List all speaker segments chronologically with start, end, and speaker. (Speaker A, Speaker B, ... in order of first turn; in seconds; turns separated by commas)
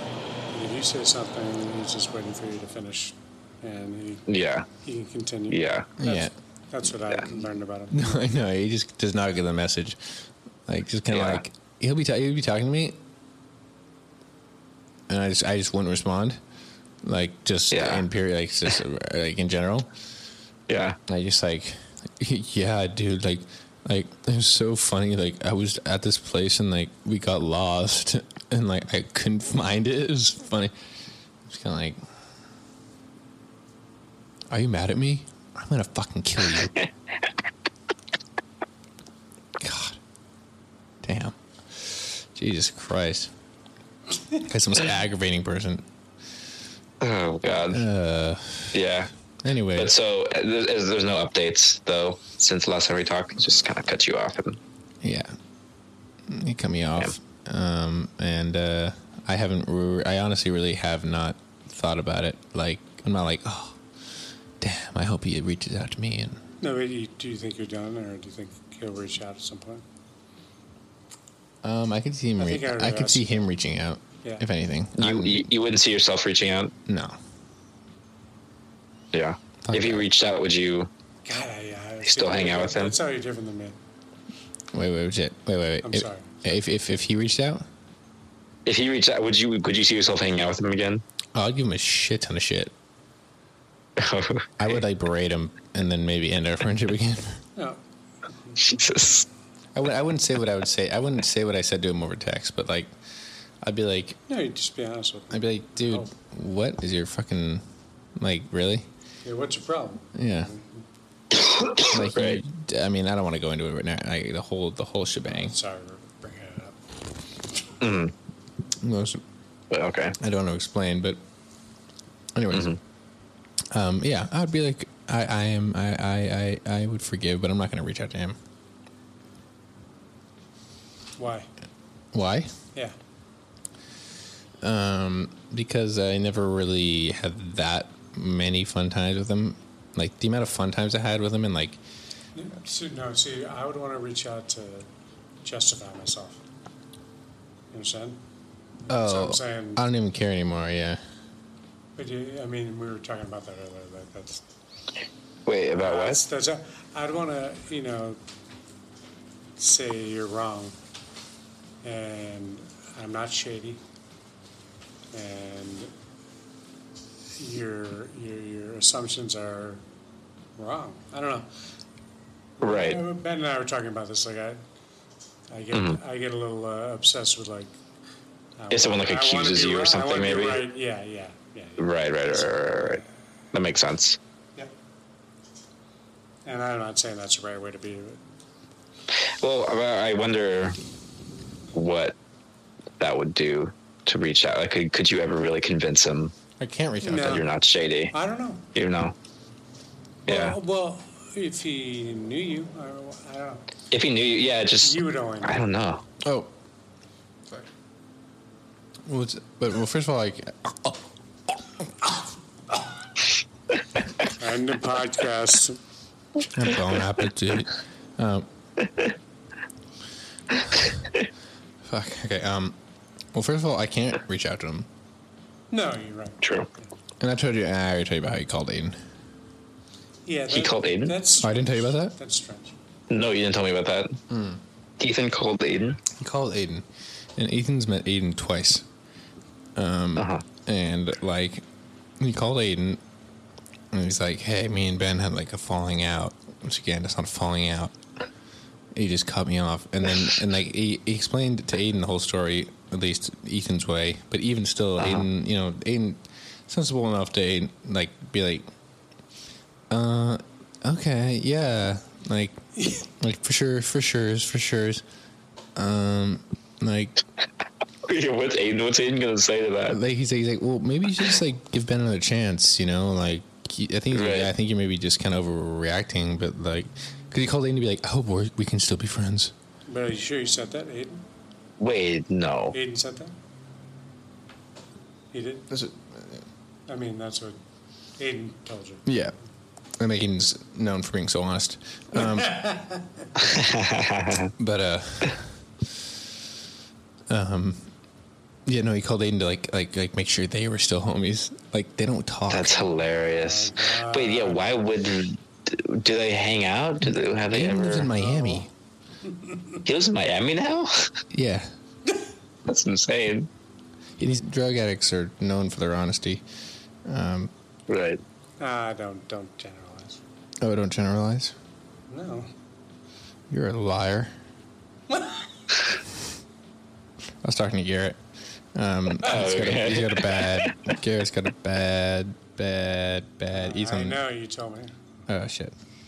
Speaker A: 0.5-4.2, Speaker B: 4.3-4.7, Speaker A: 4.8-8.2, Speaker B: 5.5-5.9, Speaker C: 6.0-6.3, Speaker C: 7.9-10.0, Speaker C: 10.7-13.0, Speaker B: 11.1-11.4, Speaker C: 15.1-16.4, Speaker C: 17.0-19.9, Speaker B: 17.7-18.1, Speaker B: 20.7-21.0, Speaker C: 21.1-30.7, Speaker C: 31.5-32.0, Speaker C: 34.5-36.7, Speaker C: 39.6-40.0, Speaker C: 41.0-43.3, Speaker C: 44.4-45.9, Speaker B: 47.0-47.9, Speaker C: 47.7-48.8, Speaker B: 48.7-49.1, Speaker C: 49.4-49.9, Speaker B: 49.8-54.6, Speaker C: 55.0-55.4, Speaker C: 56.3-63.8, Speaker C: 64.6-66.4, Speaker A: 66.6-69.8, Speaker C: 71.6-75.5, Speaker A: 72.4-73.3, Speaker B: 75.0-76.7, Speaker C: 76.9-77.2, Speaker B: 79.1-80.9, Speaker C: 79.6-80.1, Speaker A: 81.2-83.8, Speaker B: 82.0-83.0, Speaker C: 84.7-87.7, Speaker A: 85.8-86.3, Speaker B: 88.7-91.0, Speaker C: 91.3-92.7, Speaker B: 94.0-94.8, Speaker C: 94.6-97.4, Speaker B: 98.6-99.3, Speaker C: 99.8-102.9, Speaker C: 103.6-104.2, Speaker A: 104.3-106.1, Speaker C: 105.3-107.6, Speaker C: 108.2-108.9, Speaker A: 109.2-110.8, Speaker C: 110.2-110.5, Speaker B: 111.3-112.4, Speaker C: 111.9-115.6, Speaker A: 115.2-116.8, Speaker B: 117.8-118.1, Speaker C: 118.8-119.2, Speaker B: 119.7-120.2, Speaker C: 120.2-121.2, Speaker C: 122.3-122.8, Speaker B: 122.5-122.8, Speaker C: 123.7-128.4, Speaker A: 131.2-131.5, Speaker C: 132.1-132.5, Speaker C: 134.6-141.8, Speaker A: 142.3-144.9, Speaker A: 145.4-146.4, Speaker A: 147.7-148.2, Speaker C: 148.9-151.0, Speaker A: 149.0-149.8, Speaker A: 152.0-154.4, Speaker B: 155.5-156.2, Speaker A: 155.8-158.2, Speaker A: 159.6-160.8, Speaker A: 161.8-163.8, Speaker A: 165.1-165.9, Speaker A: 167.4-169.8, Speaker A: 170.6-171.5, Speaker A: 172.6-174.6, Speaker B: 172.6-173.0, Speaker A: 175.5-177.8, Speaker B: 175.7-176.0, Speaker A: 178.6-183.0, Speaker B: 178.7-180.7, Speaker B: 181.8-183.0, Speaker B: 183.5-184.2, Speaker A: 186.4-188.2, Speaker B: 189.4-190.8, Speaker B: 191.7-192.2, Speaker B: 193.0-196.3, Speaker C: 196.6-197.4, Speaker A: 197.0-197.5, Speaker B: 197.1-198.1, Speaker A: 198.1-198.6, Speaker B: 198.7-199.2, Speaker B: 200.3-200.6, Speaker A: 200.3-203.6, Speaker B: 203.9-206.0, Speaker A: 204.8-205.6, Speaker C: 206.2-206.5, Speaker C: 209.1-211.1, Speaker A: 214.3-215.8, Speaker C: 216.5-218.5, Speaker C: 221.8-222.8, Speaker C: 223.3-224.9, Speaker A: 225.7-226.9, Speaker B: 226.4-226.7, Speaker C: 227.2-229.0, Speaker A: 230.3-232.8, Speaker B: 230.5-231.2, Speaker C: 231.4-232.2, Speaker B: 233.1-234.2, Speaker C: 234.3-234.6, Speaker B: 235.0-236.0, Speaker C: 236.1-236.9, Speaker C: 237.4-238.9, Speaker C: 239.8-241.6, Speaker B: 240.2-240.4, Speaker C: 242.2-243.0, Speaker C: 243.9-248.0, Speaker C: 248.9-258.7, Speaker B: 255.0-255.3, Speaker C: 259.9-262.6, Speaker A: 262.8-263.0, Speaker C: 263.2-265.0, Speaker C: 265.8-267.2, Speaker B: 268.1-270.0, Speaker C: 269.9-279.5, Speaker B: 274.1-274.5, Speaker A: 279.9-281.2, Speaker B: 281.8-282.8, Speaker A: 282.7-283.4, Speaker A: 285.3-285.7, Speaker C: 285.7-286.4, Speaker A: 286.9-287.6, Speaker A: 288.2-289.1, Speaker C: 289.1-289.4, Speaker C: 290.0-292.6, Speaker A: 292.1-293.3, Speaker B: 293.4-294.5, Speaker C: 294.6-295.5, Speaker C: 297.3-297.9, Speaker C: 298.7-302.9, Speaker B: 302.5-308.1, Speaker A: 303.3-304.7, Speaker C: 307.0-308.7, Speaker A: 308.1-308.7, Speaker B: 309.9-311.1, Speaker C: 311.3-311.7, Speaker B: 312.6-313.5, Speaker C: 314.2-316.4, Speaker C: 317.1-317.5, Speaker B: 317.9-318.2, Speaker A: 318.6-320.2, Speaker C: 320.6-321.5, Speaker A: 322.1-322.5, Speaker C: 323.5-324.3, Speaker A: 325.1-325.4, Speaker C: 327.4-328.2, Speaker C: 328.7-334.2, Speaker B: 329.2-330.6, Speaker A: 333.5-335.0, Speaker C: 335.3-335.7